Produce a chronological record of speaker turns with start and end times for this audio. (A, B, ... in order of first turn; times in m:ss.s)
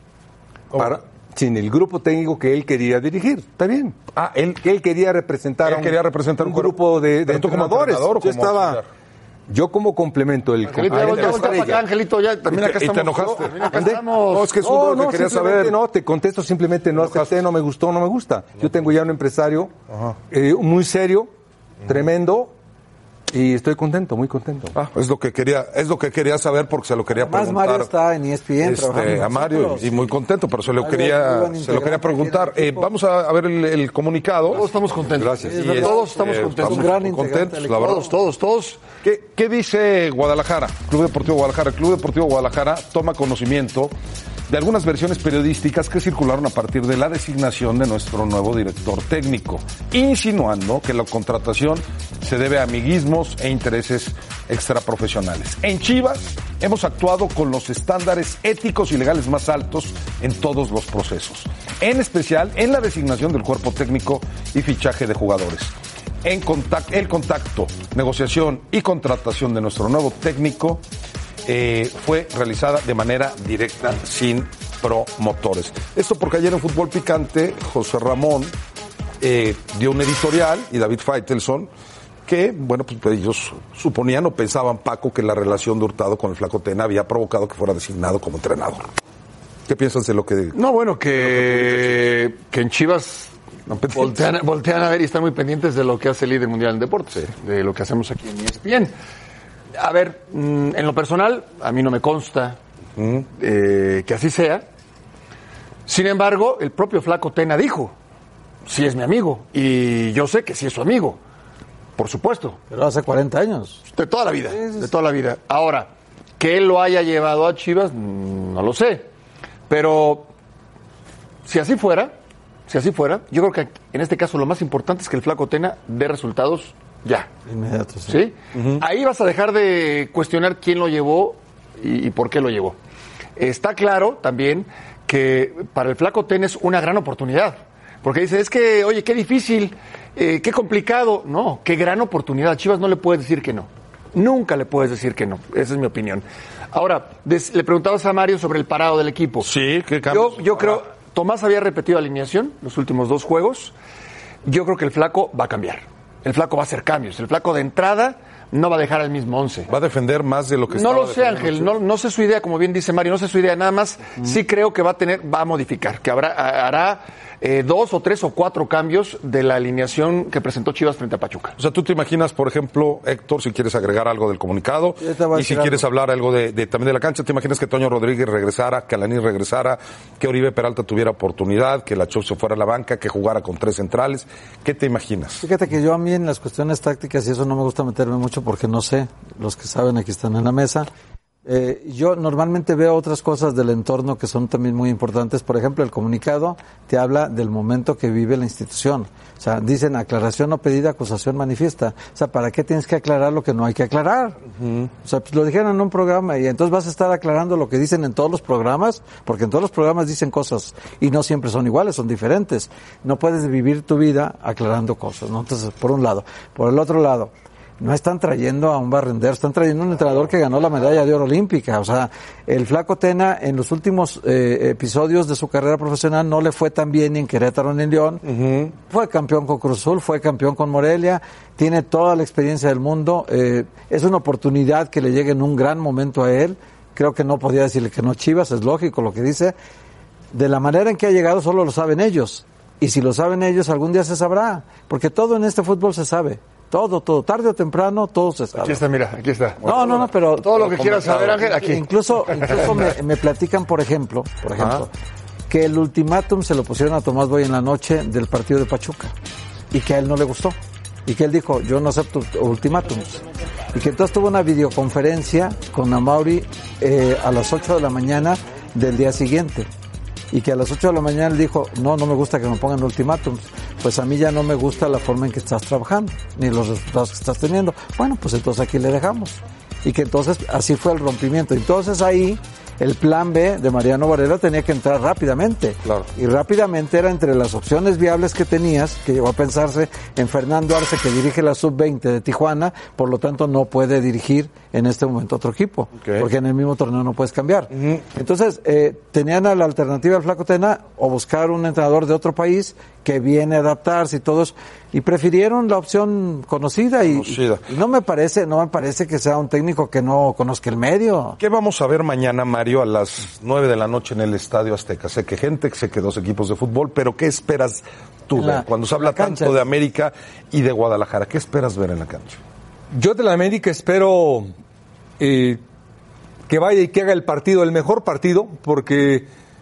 0:00.7-0:01.0 A
0:00.8-0:04.0 B
0:04.1-0:04.6 A
0:04.6-0:08.8 B
0:05.6-0:08.8 A
0:09.5-0:11.8 B
0:10.7-0:14.5 C
0:10.9-0:11.8 A
0:12.5-0:15.8 A
0:13.7-0:14.0 B
0:14.6-0:19.7 B
0:17.0-0:17.3 A
0:19.9-0:20.1 A
0:20.3-0:21.3 B
0:21.8-0:22.5 B
0:23.3-0:24.7 B
0:24.8-0:27.9 A
0:27.2-0:30.1 D
0:28.6-0:34.6 A
0:30.8-0:32.9 D
0:34.5-0:36.9 C
0:35.2-0:35.5 B
0:35.4-0:38.0 D
0:35.4-0:38.1 A
0:37.7-0:38.8 C
0:39.0-0:43.9 A
0:44.5-1:10.8 A
1:11.4-1:18.5 A
1:19.2-1:21.7 A
1:22.2-1:28.9 A
1:29.7-1:30.6 A
1:30.5-1:33.3 C
1:31.2-1:31.9 A
1:33.7-1:34.3 A
1:33.9-1:38.9 C
1:39.8-1:42.6 C
1:43.0-1:43.2 A
1:43.4-1:44.6 C
1:45.9-1:47.9 C
1:48.6-1:51.2 C
1:52.0-1:52.6 C
1:52.7-1:53.8 D
1:53.9-1:59.1 C
1:59.7-2:00.3 C
2:01.4-2:02.1 C
2:02.7-2:07.3 C
2:07.5-2:08.2 D
2:08.1-2:12.8 C
2:08.5-2:08.8 A
2:13.4-2:29.5 C
2:29.4-2:30.8 A
2:30.1-2:33.7 C
2:34.4-2:39.7 C
2:39.7-2:41.7 A
2:40.7-2:51.5 C
2:51.6-3:05.4 A
2:55.0-2:55.8 D
3:05.4-3:10.9 D
3:11.4-3:24.4 D
3:25.0-3:59.6 D
3:48.2-3:48.7 A
4:00.3-4:08.8 D
4:08.6-4:12.7 C
4:09.6-4:11.3 A
4:09.6-4:14.9 D
4:15.5-4:19.1 D
4:19.7-4:23.2 D
4:23.7-4:29.7 D
4:30.3-5:11.4 D
4:56.0-4:56.2 A
4:57.7-4:58.0 A
5:07.1-5:07.6 A
5:11.4-5:22.4 A
5:18.4-5:19.6 D
5:22.9-5:24.5 B
5:25.2-5:25.6 B
5:26.5-5:29.3 B